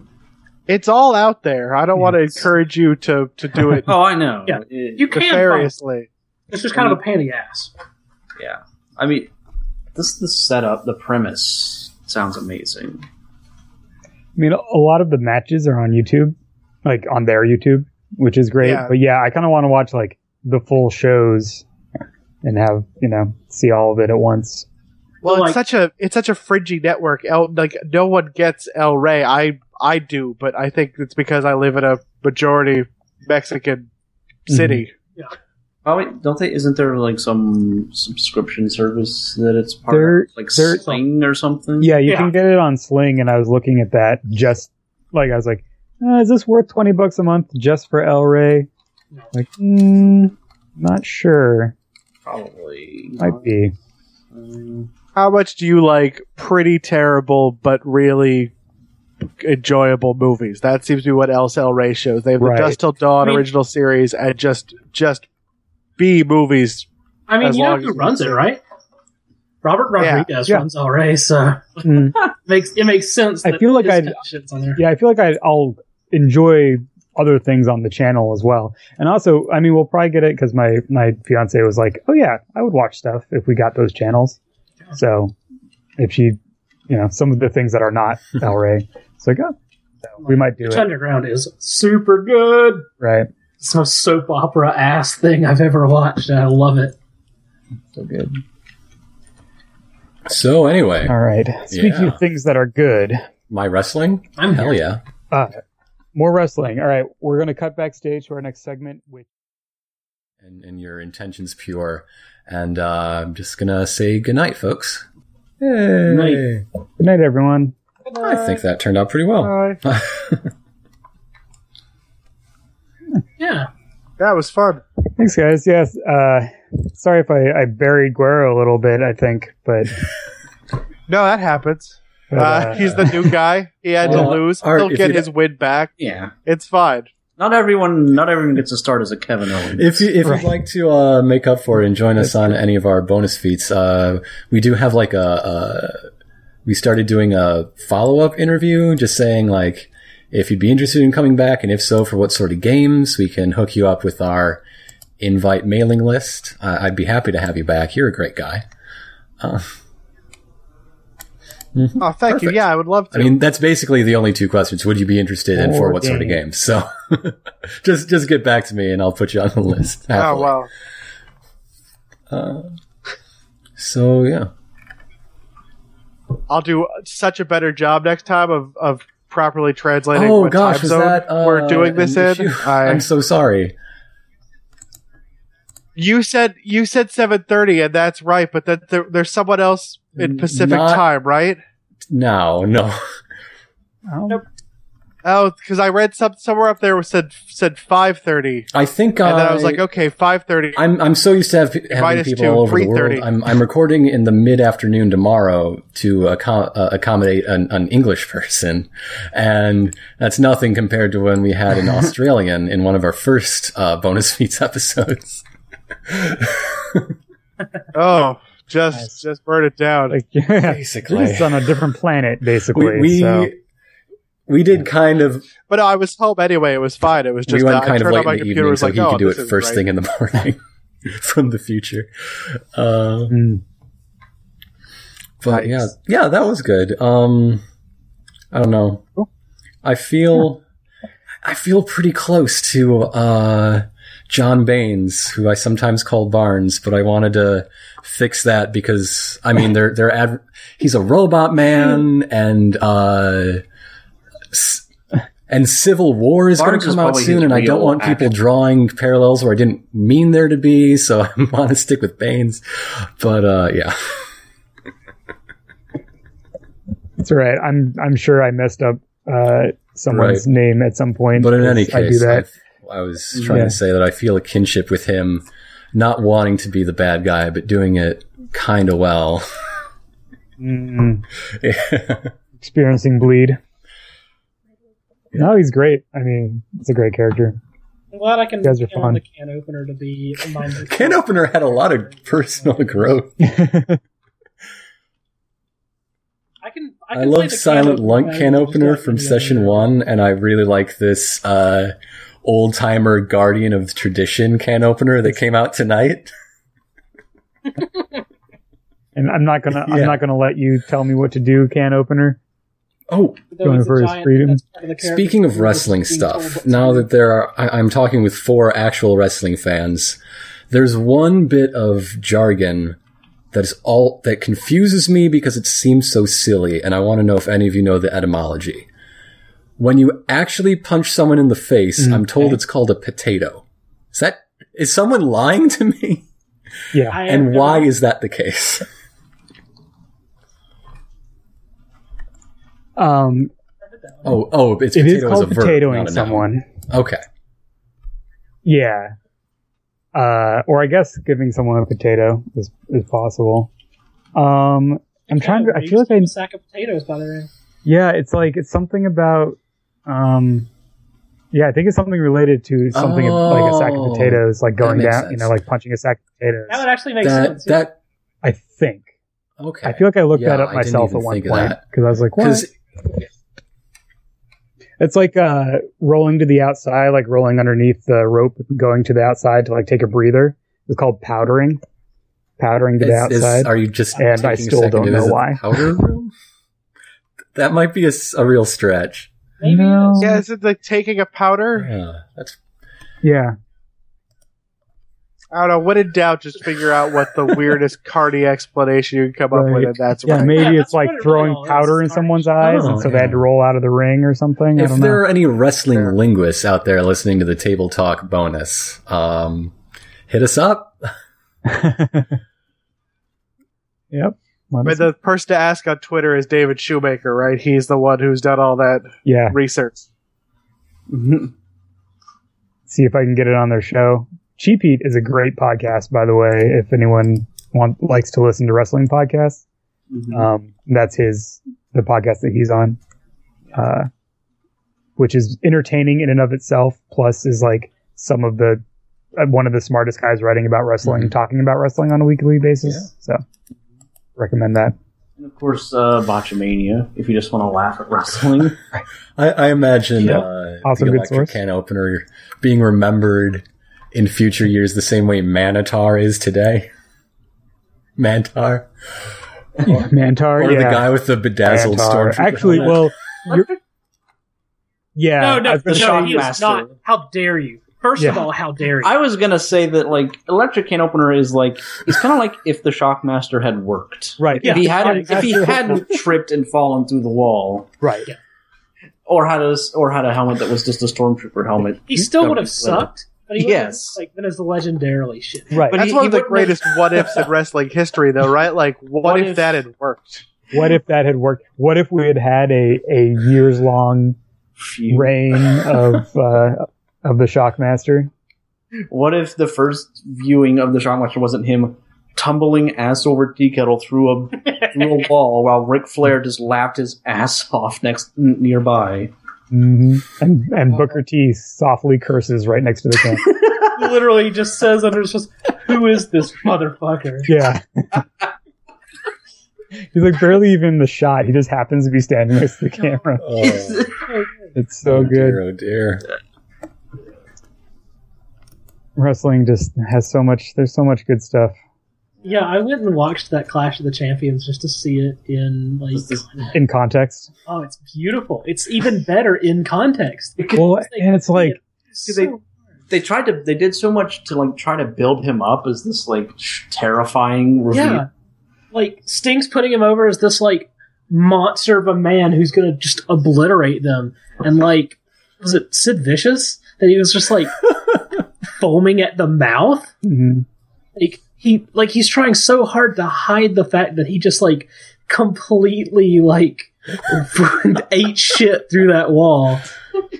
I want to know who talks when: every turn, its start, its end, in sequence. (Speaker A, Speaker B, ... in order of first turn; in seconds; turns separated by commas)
Speaker A: 0.7-3.9, Speaker B: 3.8-5.1, Speaker C: 4.5-5.7, Speaker A: 5.1-6.1, Speaker C: 6.5-7.7, Speaker B: 8.4-9.3, Speaker B: 9.9-13.0, Speaker D: 14.3-21.6, Speaker A: 18.6-18.9, Speaker D: 22.4-24.7, Speaker C: 25.2-25.6, Speaker A: 25.2-33.9, Speaker A: 34.5-34.9, Speaker D: 34.5-34.8, Speaker B: 35.8-42.0, Speaker D: 39.9-40.8, Speaker D: 41.8-48.7, Speaker C: 42.0-42.3, Speaker D: 49.3-51.7, Speaker B: 52.2-53.5, Speaker D: 53.2-53.7, Speaker B: 54.3-54.9, Speaker A: 55.1-58.5, Speaker A: 59.4-65.2, Speaker D: 62.4-62.8, Speaker C: 63.2-63.5, Speaker A: 66.0-66.9, Speaker C: 67.3-68.6, Speaker A: 67.4-68.4, Speaker C: 69.6-74.8, Speaker A: 70.0-70.3, Speaker D: 71.8-72.2, Speaker D: 73.4-74.2, Speaker D: 74.8-84.4, Speaker D: 84.9-85.3, Speaker D: 86.0-89.5, Speaker D: 90.0-90.9, Speaker C: 90.2-92.9, Speaker D: 93.0-93.3, Speaker C: 93.6-96.9, Speaker D: 97.9-98.4, Speaker E: 100.3-101.2, Speaker D: 101.0-103.2, Speaker E: 101.7-102.2, Speaker E: 103.5-105.0, Speaker C: 104.4-104.8, Speaker D: 105.3-105.6, Speaker D: 106.1-109.3, Speaker E: 110.4-115.0, Speaker E: 115.6-116.6, Speaker D: 117.0-117.7, Speaker E: 118.1-120.5, Speaker A: 119.4-119.8, Speaker C: 123.4-123.7, Speaker A: 124.2-124.8, Speaker D: 125.2-130.0, Speaker A: 131.1-135.9, Speaker D: 132.3-133.2, Speaker E: 134.0-135.3, Speaker B: 136.0-136.3, Speaker A: 136.4-137.1, Speaker B: 137.4-140.1, Speaker E: 139.7-146.1, Speaker D: 140.2-140.5, Speaker E: 146.6-154.6, Speaker E: 155.2-158.6, Speaker E: 159.4-159.7, Speaker E: 161.7-162.6, Speaker A: 162.0-163.3, Speaker E: 163.1-170.6, Speaker D: 165.5-166.4, Speaker A: 170.1-170.7, Speaker E: 172.3-172.8, Speaker E: 173.8-174.5, Speaker A: 176.5-183.0, Speaker E: 180.1-183.7, Speaker A: 185.9-191.6, Speaker E: 190.2-191.0, Speaker E: 192.1-193.0, Speaker D: 194.1-194.4, Speaker A: 195.2-198.7, Speaker E: 198.7-199.8, Speaker A: 199.2-200.8, Speaker E: 200.7-215.4, Speaker A: 201.9-203.2, Speaker E: 216.1-217.1, Speaker A: 217.9-220.2, Speaker D: 218.9-219.2, Speaker D: 220.1-223.5, Speaker E: 220.6-221.6, Speaker E: 222.7-223.6, Speaker E: 224.5-225.5, Speaker A: 225.6-229.8, Speaker E: 227.5-233.4, Speaker D: 233.3-233.6, Speaker E: 235.4-237.6, Speaker E: 238.5-239.1, Speaker E: 239.8-240.6, Speaker E: 241.4-253.6, Speaker E: 254.5-254.8, Speaker E: 255.5-264.2, Speaker B: 256.6-258.3, Speaker D: 267.2-272.4, Speaker E: 270.1-270.4, Speaker E: 271.4-279.4, Speaker D: 273.5-273.8, Speaker D: 280.6-281.2, Speaker E: 281.5-282.3, Speaker D: 282.6-283.6, Speaker D: 285.3-287.6, Speaker C: 288.1-293.2, Speaker D: 288.6-289.2, Speaker E: 290.8-293.4, Speaker D: 293.4-294.0, Speaker C: 296.6-299.9, Speaker E: 297.1-306.3, Speaker D: 309.1-312.4, Speaker E: 309.8-310.2, Speaker E: 313.1-313.5, Speaker C: 313.5-317.1, Speaker D: 313.6-314.6, Speaker E: 315.0-320.2, Speaker E: 320.7-323.0, Speaker E: 323.5-328.9, Speaker E: 329.8-336.2, Speaker D: 332.0-332.6, Speaker D: 336.9-337.2, Speaker C: 337.1-337.9, Speaker E: 337.1-338.9, Speaker D: 343.0-343.5, Speaker E: 344.2-347.2, Speaker D: 344.9-346.7, Speaker D: 348.6-349.1, Speaker D: 350.1-353.7, Speaker D: 354.3-356.3, Speaker C: 355.3-357.5, Speaker D: 357.8-360.7, Speaker D: 361.5-366.8, Speaker E: 362.9-365.5, Speaker C: 366.7-367.9, Speaker E: 367.2-368.0, Speaker D: 368.4-369.1, Speaker E: 369.6-371.8, Speaker D: 369.8-372.7, Speaker E: 372.4-372.7, Speaker D: 375.0-381.8, Speaker D: 382.6-385.8, Speaker E: 383.0-386.3, Speaker E: 387.5-389.3, Speaker C: 389.6-390.3, Speaker D: 389.6-390.4, Speaker A: 390.2-391.9, Speaker E: 391.7-392.6, Speaker D: 393.2-393.6, Speaker A: 395.5-400.7, Speaker D: 399.5-405.2, Speaker C: 400.4-402.9, Speaker E: 402.6-403.4, Speaker E: 404.7-409.7, Speaker E: 410.3-411.0, Speaker D: 411.6-412.4, Speaker D: 414.1-415.1, Speaker A: 414.8-420.1, Speaker D: 419.2-419.6, Speaker B: 421.1-421.5, Speaker D: 422.9-429.6, Speaker B: 430.1-430.5, Speaker D: 430.3-433.0, Speaker D: 433.7-434.1, Speaker D: 435.2-438.8, Speaker D: 439.4-443.4, Speaker E: 441.0-441.3, Speaker D: 444.4-444.9, Speaker B: 445.4-448.8, Speaker E: 449.4-456.9, Speaker D: 450.2-451.5, Speaker E: 458.2-463.1, Speaker D: 459.8-461.0, Speaker D: 461.6-463.7, Speaker D: 465.1-466.5, Speaker C: 465.4-469.1, Speaker B: 465.9-466.9, Speaker D: 468.2-468.4, Speaker B: 469.0-477.9, Speaker D: 474.4-476.2, Speaker C: 474.6-475.7, Speaker D: 478.0-478.3, Speaker B: 479.2-484.2, Speaker C: 482.1-485.9, Speaker D: 485.7-486.0, Speaker B: 485.9-487.5, Speaker A: 485.9-490.4, Speaker B: 489.2-489.8, Speaker D: 490.7-494.4, Speaker B: 494.8-496.0, Speaker D: 495.1-498.3, Speaker B: 499.1-509.3, Speaker D: 509.7-513.5, Speaker C: 513.9-517.5, Speaker D: 517.5-518.2, Speaker D: 520.1-523.4, Speaker E: 523.4-524.1, Speaker B: 523.6-524.2, Speaker C: 524.2-524.7, Speaker D: 524.7-525.6, Speaker E: 525.1-526.2, Speaker D: 529.1-531.8, Speaker C: 532.4-536.8, Speaker B: 536.1-536.5, Speaker D: 536.7-537.5, Speaker C: 537.6-542.6, Speaker D: 540.7-541.8, Speaker B: 542.2-542.5, Speaker B: 543.1-548.2, Speaker C: 547.9-548.3, Speaker C: 548.9-557.8, Speaker C: 558.6-560.1, Speaker D: 560.2-560.6, Speaker C: 561.1-569.9